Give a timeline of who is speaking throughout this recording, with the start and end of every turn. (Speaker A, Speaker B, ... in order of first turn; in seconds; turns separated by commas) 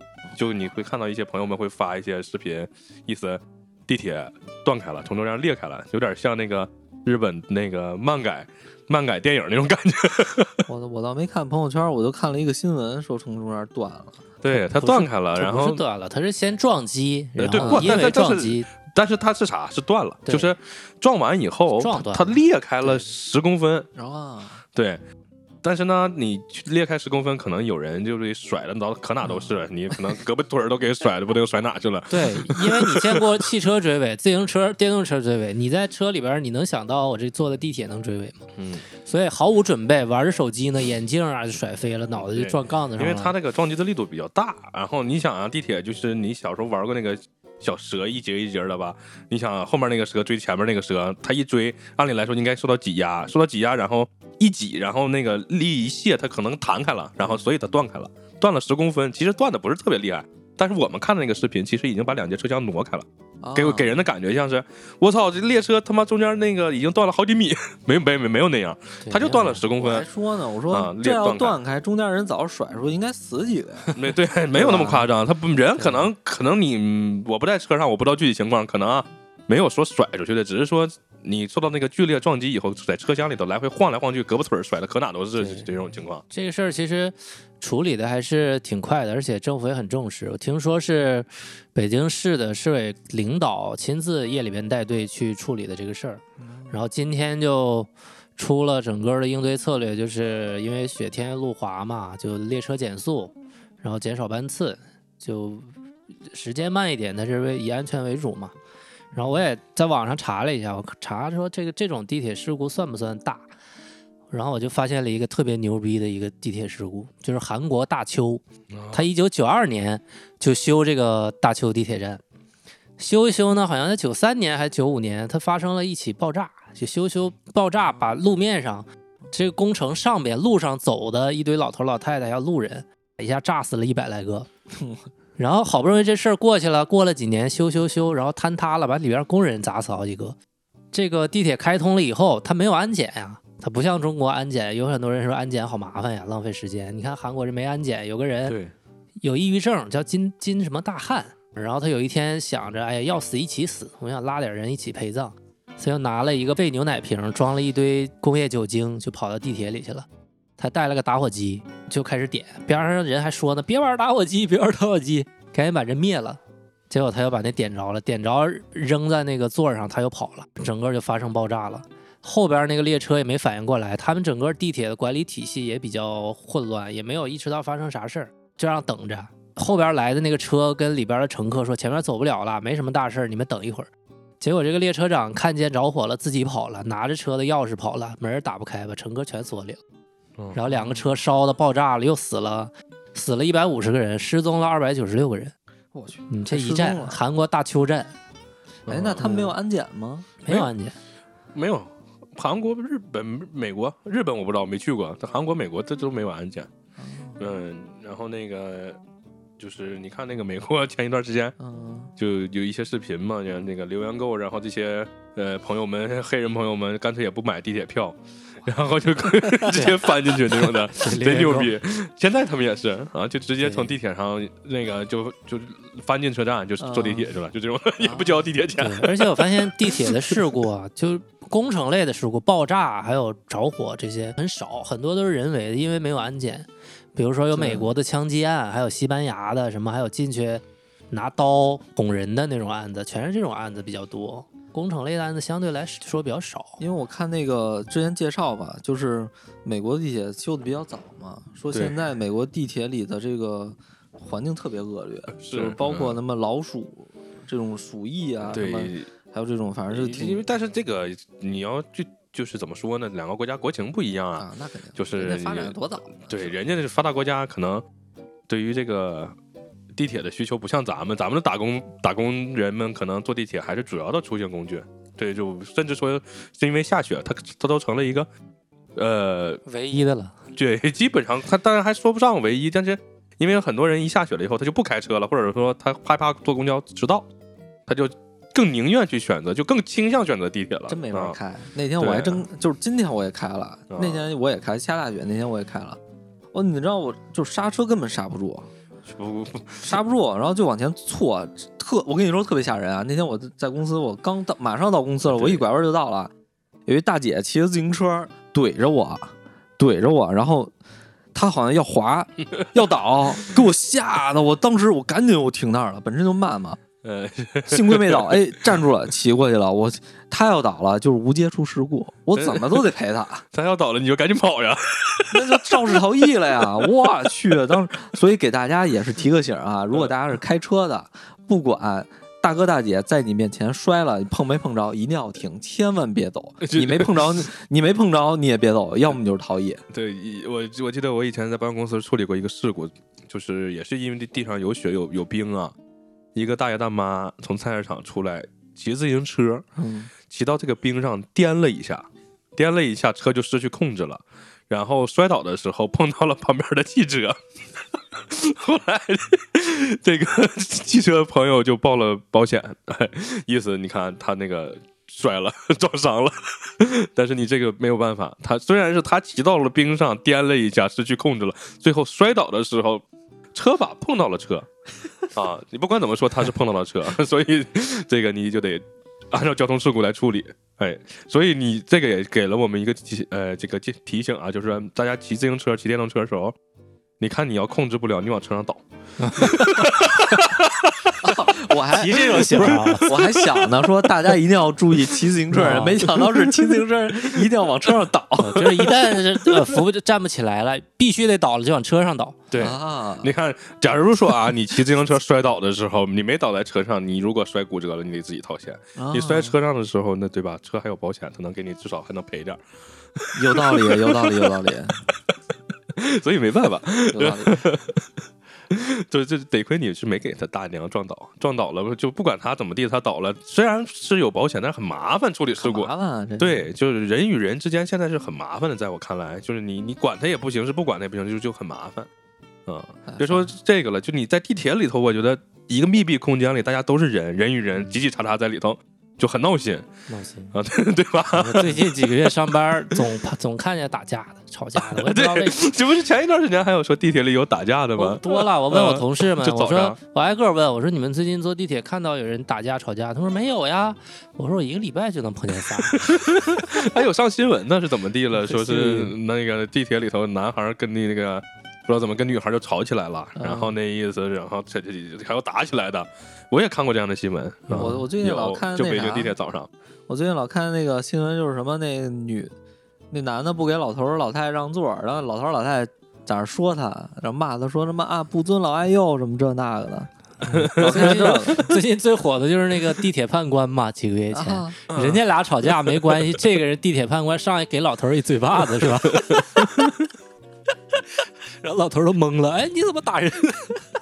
Speaker A: 0.3-10.6, Speaker B: 10.7-14.2, Speaker A: 14.4-15.8, Speaker C: 14.5-18.7, Speaker A: 17.4-23.9, Speaker B: 17.6-18.0, Speaker C: 20.2-20.5, Speaker C: 21.8-22.4, Speaker B: 23.9-24.6, Speaker A: 24.7-25.0, Speaker A: 25.6-33.3, Speaker B: 29.3-29.5, Speaker C: 32.1-38.4, Speaker A: 38.6-38.9, Speaker C: 39.0-43.3, Speaker A: 42.2-70.0, Speaker B: 63.4-64.0, Speaker C: 69.0-69.6, Speaker B: 69.8-73.9, Speaker A: 70.7-71.6, Speaker A: 73.9-86.2, Speaker B: 74.5-75.1, Speaker C: 75.8-76.0, Speaker C: 85.3-85.7, Speaker C: 86.3-105.7, Speaker B: 96.4-96.8, Speaker C: 106.3-108.5, Speaker C: 109.1-113.5, Speaker C: 114.3-122.2, Speaker A: 118.7-119.0, Speaker C: 123.0-134.5, Speaker B: 134.7-135.0, Speaker C: 135.4-140.3, Speaker C: 140.9-148.5, Speaker A: 148.4-148.7, Speaker C: 149.2-160.1, Speaker C: 160.6-183.9, Speaker C: 184.4-189.8, Speaker C: 190.5-195.5, Speaker B: 190.7-191.1, Speaker B: 195.9-197.2, Speaker C: 196.3-198.1, Speaker A: 198.9-199.4, Speaker B: 198.9-200.3, Speaker C: 200.4-200.9, Speaker A: 201.5-206.7, Speaker B: 207.0-207.4, Speaker A: 207.4-209.0, Speaker A: 209.6-211.6, Speaker B: 211.6-212.1, Speaker A: 212.2-230.5, Speaker C: 221.0-221.7, Speaker C: 223.6-223.9, Speaker B: 226.8-227.3, Speaker B: 228.0-228.5, Speaker C: 228.8-246.8, Speaker B: 237.5-237.9, Speaker B: 246.8-260.4, Speaker A: 255.3-256.2, Speaker A: 258.5-259.1, Speaker A: 259.9-265.7, Speaker B: 264.4-266.5, Speaker A: 266.3-267.8, Speaker A: 268.5-269.3, Speaker A: 269.9-278.3, Speaker A: 279.0-279.6, Speaker C: 279.6-280.3, Speaker A: 280.5-287.3, Speaker A: 287.9-291.4, Speaker B: 290.9-296.0, Speaker A: 292.0-292.4, Speaker A: 293.9-294.2, Speaker B: 296.5-298.7, Speaker A: 299.1-300.0, Speaker B: 299.8-306.3, Speaker A: 305.3-305.6, Speaker B: 306.9-310.7, Speaker B: 311.3-316.8, Speaker A: 317.0-318.5, Speaker B: 317.7-323.4, Speaker A: 322.4-322.8, Speaker A: 323.5-326.0, Speaker B: 325.3-339.8, Speaker A: 326.6-326.9, Speaker A: 336.6-337.5, Speaker A: 339.9-345.7, Speaker A: 346.3-349.6, Speaker B: 349.8-350.1, Speaker A: 350.3-352.0, Speaker A: 352.6-357.4, Speaker A: 358.1-373.0, Speaker A: 373.5-374.7, Speaker A: 375.3-386.5, Speaker A: 387.2-388.8, Speaker C: 389.2-389.8, Speaker A: 389.4-391.3, Speaker B: 391.2-398.7, Speaker C: 391.9-393.1, Speaker A: 392.1-393.7, Speaker C: 395.5-396.1, Speaker A: 396.1-396.7, Speaker C: 398.4-402.4, Speaker A: 398.6-398.9, Speaker A: 402.5-412.6, Speaker B: 402.6-403.3, Speaker B: 409.0-409.6, Speaker A: 413.2-414.5, Speaker B: 413.3-415.0, Speaker A: 415.9-418.1, Speaker B: 417.1-417.6, Speaker A: 418.7-432.1, Speaker B: 425.6-426.7, Speaker A: 432.7-439.9, Speaker B: 433.1-433.5, Speaker C: 440.1-440.5, Speaker A: 440.5-442.3, Speaker C: 441.3-445.6, Speaker A: 444.8-450.0, Speaker C: 447.9-456.1, Speaker A: 455.9-469.7, Speaker B: 458.4-459.1, Speaker B: 463.4-463.7, Speaker C: 467.7-468.0, Speaker B: 467.7-469.3, Speaker B: 470.1-472.5, Speaker B: 473.1-480.1, Speaker C: 480.4-489.7, Speaker A: 480.5-481.5, Speaker B: 480.7-481.7, Speaker B: 484.3-484.8, Speaker A: 484.9-486.3, Speaker A: 489.1-490.0, Speaker C: 491.6-493.8